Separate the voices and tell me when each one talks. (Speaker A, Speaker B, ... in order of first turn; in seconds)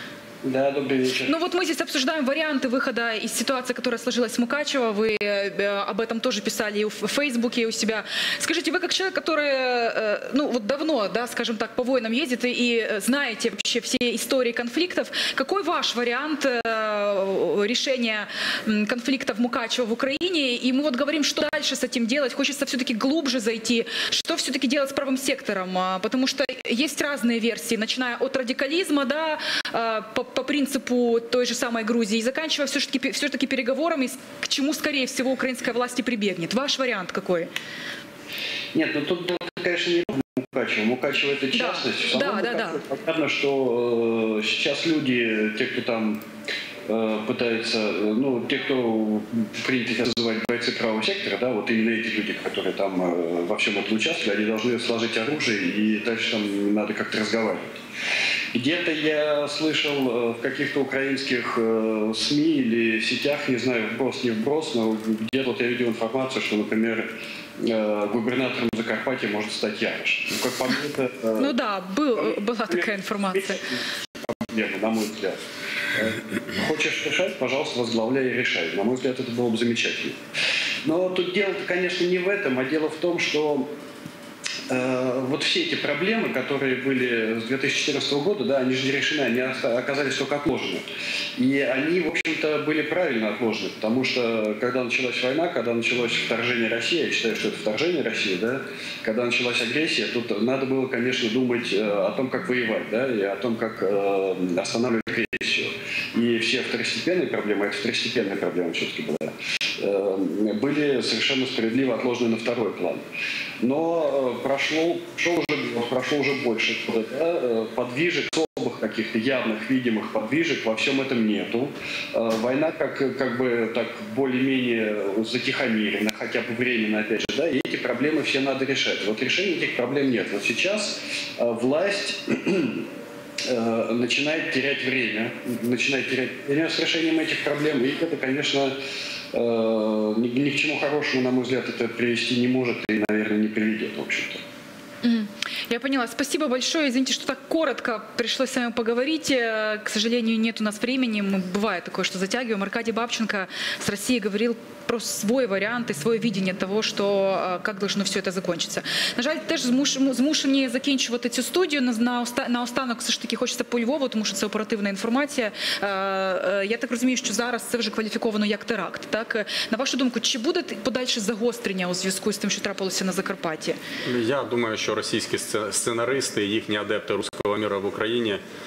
Speaker A: 0.4-1.4, 38.7-46.2, 46.9-57.7, 58.5-71.5, 72.2-75.4, 75.9-80.2, 80.8-83.7, 84.7-90.9, 91.4-113.0, 113.6-132.9, 133.4-138.8, 139.3-144.4
Speaker B: 1.3-37.5, 41.5-42.8, 71.4-73.7, 145.0-173.8
Speaker C: 174.1-178.4